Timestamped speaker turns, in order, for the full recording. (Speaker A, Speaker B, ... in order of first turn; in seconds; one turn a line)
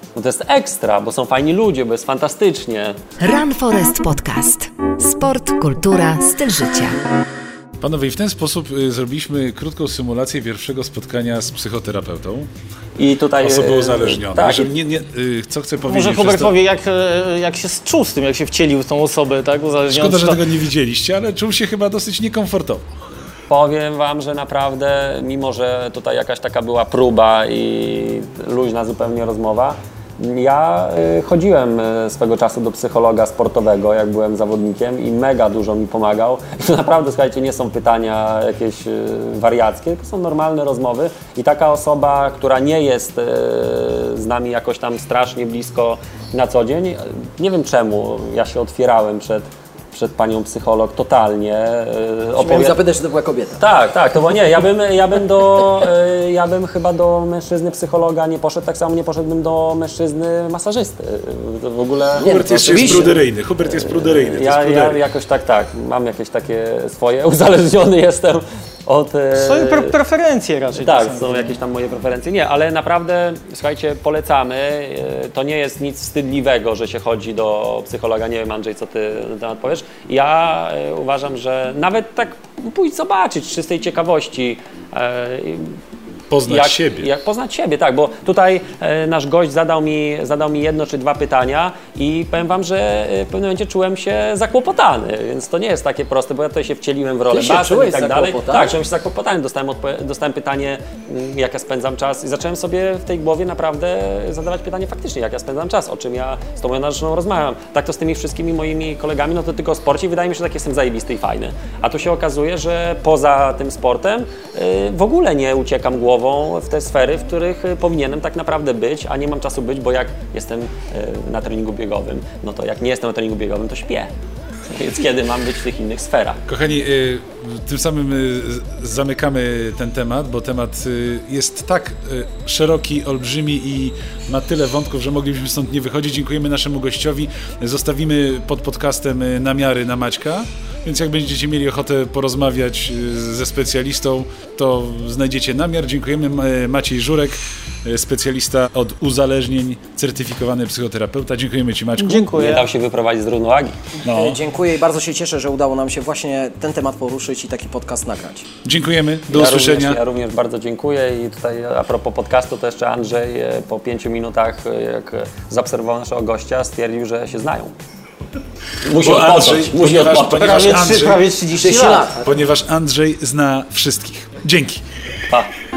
Speaker A: 0.1-3.0
Speaker B: 3.2-7.0
Speaker C: 7.8-12.5
Speaker A: 13.0-14.7
Speaker C: 13.4-16.5
Speaker D: 15.9-20.4
Speaker C: 19.9-22.9
Speaker A: 23.5-52.8
Speaker E: 52.4-53.6
Speaker A: 53.6-69.9
Speaker E: 62.2-63.1
Speaker C: 62.2-65.0
Speaker D: 69.3-71.5
Speaker A: 70.8-85.8
Speaker C: 86.3-87.1
Speaker A: 86.5-124.1
Speaker E: 97.3-98.8
Speaker A: 124.7-126.4
Speaker C: 126.5-152.4
Speaker D: 152.0-152.7
Speaker A: 152.3-153.8
Speaker C: 154.0-154.4
Speaker E: 154.1-158.5
Speaker C: 158.6-160.0
Speaker A: 159.3-167.8
Speaker A: 168.8-171.0
Speaker C: 168.9-171.2
Speaker D: 170.4-172.1
Speaker E: 171.6-172.4
Speaker C: 172.2-174.8